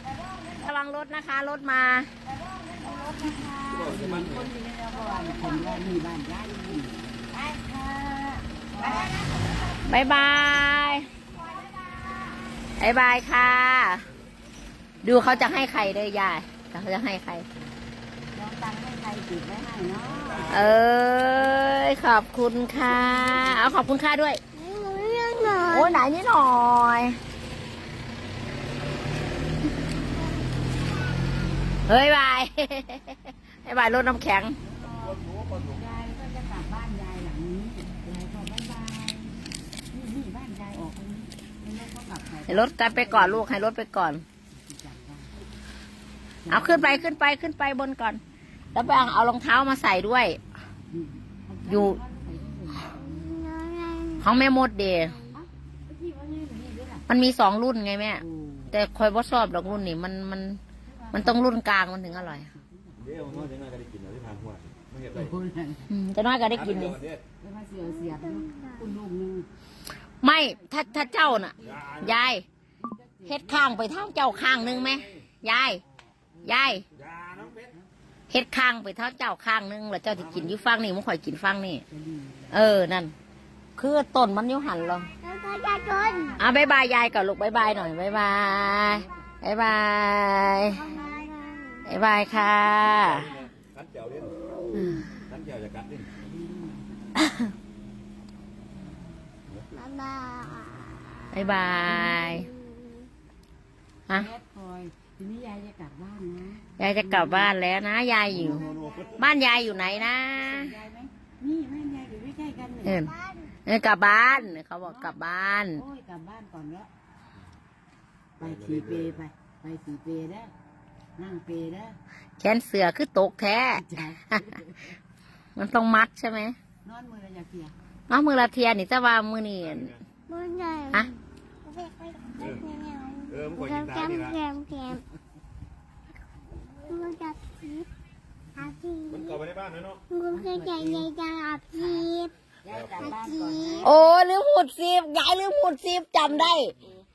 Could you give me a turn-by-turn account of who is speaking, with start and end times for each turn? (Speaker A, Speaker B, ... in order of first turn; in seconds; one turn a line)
Speaker A: 0.6-2.1
Speaker B: 2.3-9.2
Speaker C: 3.8-4.5
Speaker D: 5.2-5.5
Speaker D: 8.9-9.8
Speaker A: 9.8-11.1
Speaker A: 12.8-14.1
Speaker A: 15.0-17.4
Speaker B: 18.3-20.6
Speaker A: 20.4-24.4
Speaker D: 24.5-26.0
Speaker A: 25.7-27.2
Speaker A: 31.9-34.6
Speaker B: 34.7-43.5
Speaker A: 42.5-44.2
Speaker B: 44.6-45.3
Speaker B: 46.5-46.8
Speaker A: 46.5-48.2
Speaker A: 48.7-50.4
Speaker B: 50.9-52.9
Speaker A: 51.7-52.0
Speaker D: 52.9-54.3
Speaker A: 54.2-55.2
Speaker B: 55.9-57.0
Speaker A: 57.1-60.6
Speaker B: 58.3-58.6
Speaker B: 60.9-61.3
Speaker A: 61.1-62.5
Speaker B: 62.5-63.4
Speaker C: 63.2-65.3
Speaker B: 65.2-65.8
Speaker A: 65.9-67.0
Speaker C: 66.7-67.2
Speaker B: 67.4-69.5
Speaker D: 67.9-68.8
Speaker A: 70.2-72.4
Speaker B: 72.9-73.7
Speaker A: 73.2-75.8
Speaker B: 76.4-76.8
Speaker A: 76.4-76.8
Speaker B: 77.3-77.8
Speaker A: 78.3-81.8
Speaker B: 82.0-82.4
Speaker A: 82.5-83.1
Speaker A: 83.8-85.1
Speaker D: 85.2-86.5
Speaker A: 86.4-90.9
Speaker D: 90.7-91.9
Speaker A: 91.8-93.3
Speaker C: 93.2-94.3
Speaker A: 94.8-95.0
Speaker C: 95.3-96.1
Speaker B: 96.2-96.8
Speaker A: 97.1-97.5
Speaker D: 99.7-103.1
Speaker A: 101.3-102.5
Speaker B: 104.1-107.5
Speaker A: 106.8-108.6
Speaker B: 108.4-113.0
Speaker A: 109.2-110.7
Speaker A: 112.8-113.1
Speaker D: 113.1-113.5
Speaker A: 113.7-115.8
Speaker B: 114.8-115.1
Speaker B: 115.8-116.9
Speaker B: 118.4-120.5
Speaker B: 121.2-122.0
Speaker A: 122.4-124.6
Speaker B: 123.8-124.8
Speaker A: 125.5-126.6
Speaker B: 126.8-127.7
Speaker A: 128.1-129.9
Speaker D: 130.3-135.0
Speaker C: 133.3-134.3
Speaker D: 136.9-137.9
Speaker D: 138.6-139.4
Speaker C: 139.2-140.0
Speaker D: 140.1-142.3
Speaker B: 140.3-141.1
Speaker B: 141.8-142.0
Speaker B: 142.6-143.9
Speaker D: 143.0-143.9
Speaker A: 143.8-146.7